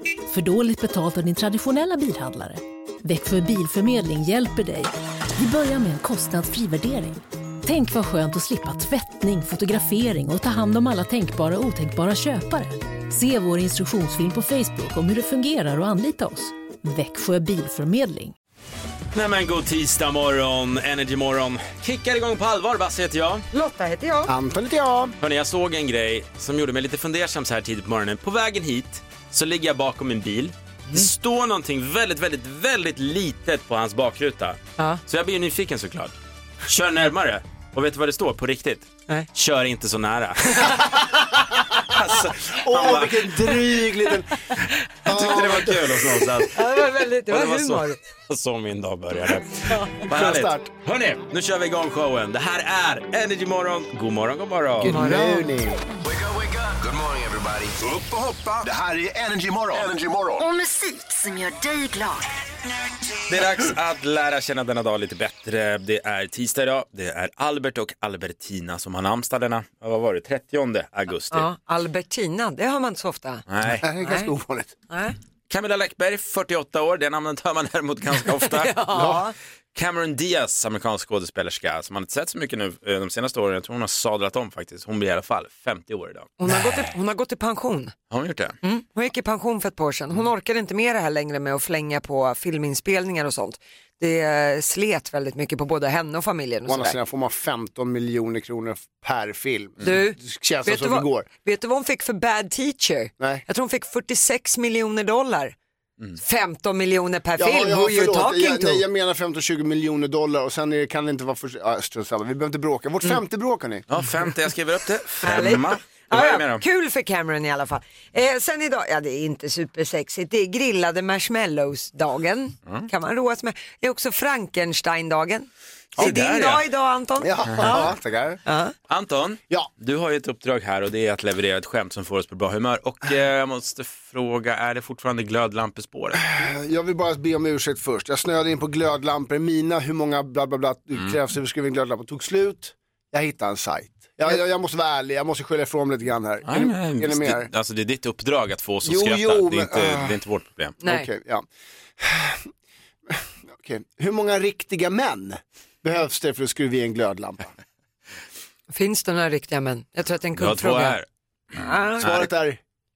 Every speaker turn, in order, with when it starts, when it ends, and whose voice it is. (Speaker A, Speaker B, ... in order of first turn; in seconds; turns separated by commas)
Speaker A: 0.3-18.3, Speaker B: 19.1-23.5, Speaker C: 23.5-24.3, Speaker D: 24.3-25.1, Speaker B: 25.2-40.8, Speaker B: 41.8-43.6, Speaker D: 42.6-44.3, Speaker D: 45.0-46.3, Speaker B: 45.0-46.6, Speaker C: 46.5-48.0, Speaker B: 47.3-54.9, Speaker D: 50.1-50.6, Speaker D: 54.8-55.8, Speaker C: 54.9-55.5, Speaker E: 56.0-60.4, Speaker F: 60.4-62.3, Speaker B: 63.3-71.5, Speaker C: 71.3-73.5, Speaker B: 73.5-73.8, Speaker D: 73.8-74.7, Speaker C: 74.0-74.3, Speaker C: 74.9-75.2, Speaker B: 75.5-78.8, Speaker C: 78.3-79.3, Speaker B: 79.7-86.5, Speaker C: 86.4-87.9, Speaker B: 88.1-88.6, Speaker C: 88.6-97.0, Speaker D: 96.7-101.3, Speaker C: 99.8-105.6, Speaker C: 106.2-108.8, Speaker D: 107.4-113.9, Speaker B: 113.9-116.6, Speaker C: 115.2-127.9, Speaker B: 126.0-126.7, Speaker D: 127.2-128.4, Speaker B: 127.5-128.0, Speaker C: 128.4-128.7, Speaker B: 128.9-136.4, Speaker D: 136.3-147.5, Speaker B: 146.4-150.8, Speaker D: 148.8-150.2, Speaker D: 150.8-151.5, Speaker D: 152.0-152.5, Speaker D: 153.1-157.5, Speaker C: 158.7-161.0, Speaker B: 160.4-161.1, Speaker C: 161.5-162.1, Speaker D: 162.0-162.6, Speaker B: 162.0-162.3